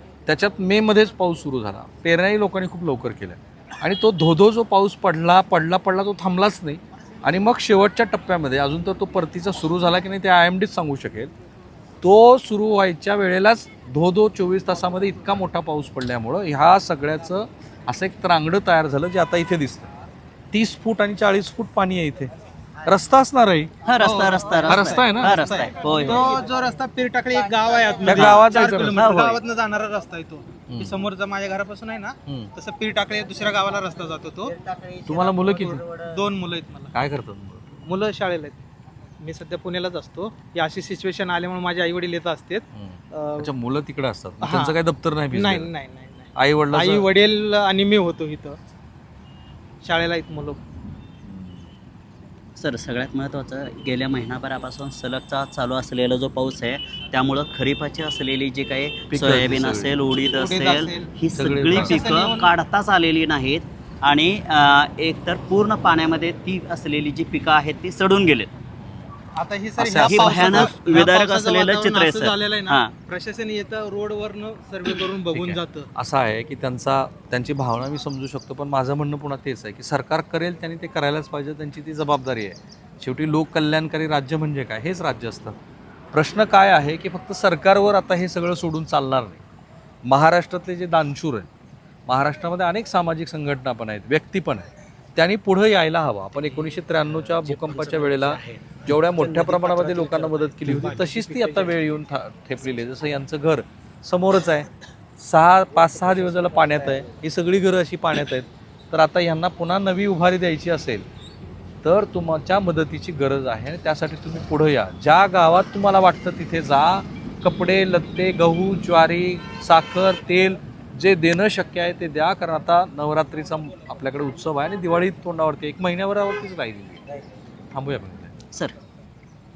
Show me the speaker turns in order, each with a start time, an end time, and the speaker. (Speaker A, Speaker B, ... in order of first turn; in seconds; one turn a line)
Speaker A: 0.2-11.3
Speaker A: 12.0-19.9
Speaker A: 20.5-22.3
Speaker A: 22.8-23.7
Speaker B: 23.8-26.3
Speaker C: 24.0-34.6
Speaker A: 24.6-25.5
Speaker A: 28.0-29.1
Speaker B: 28.1-29.4
Speaker A: 30.7-30.9
Speaker A: 32.2-32.5
Speaker A: 35.0-35.8
Speaker C: 35.1-36.9
Speaker A: 36.9-37.8
Speaker C: 37.8-38.6
Speaker C: 39.2-43.5
Speaker A: 42.7-45.7
Speaker C: 44.4-44.8
Speaker C: 45.3-48.6
Speaker A: 46.3-47.0
Speaker C: 49.8-50.6
Speaker A: 51.2-51.6
Speaker B: 52.5-68.5
Speaker A: 59.1-59.9
Speaker C: 60.1-61.1
Speaker A: 61.4-62.2
Speaker C: 61.7-62.5
Speaker C: 69.3-75.9
Speaker A: 69.8-71.1
Speaker B: 70.0-72.9
Speaker A: 75.3-85.5
Speaker A: 86.1-89.4
Speaker A: 90.0-91.5
Speaker A: 92.1-104.7
Speaker B: 97.4-98.8
Speaker C: 99.0-101.9
Speaker A: 105.2-111.0
Speaker A: 111.8-127.0
Speaker A: 127.7-128.3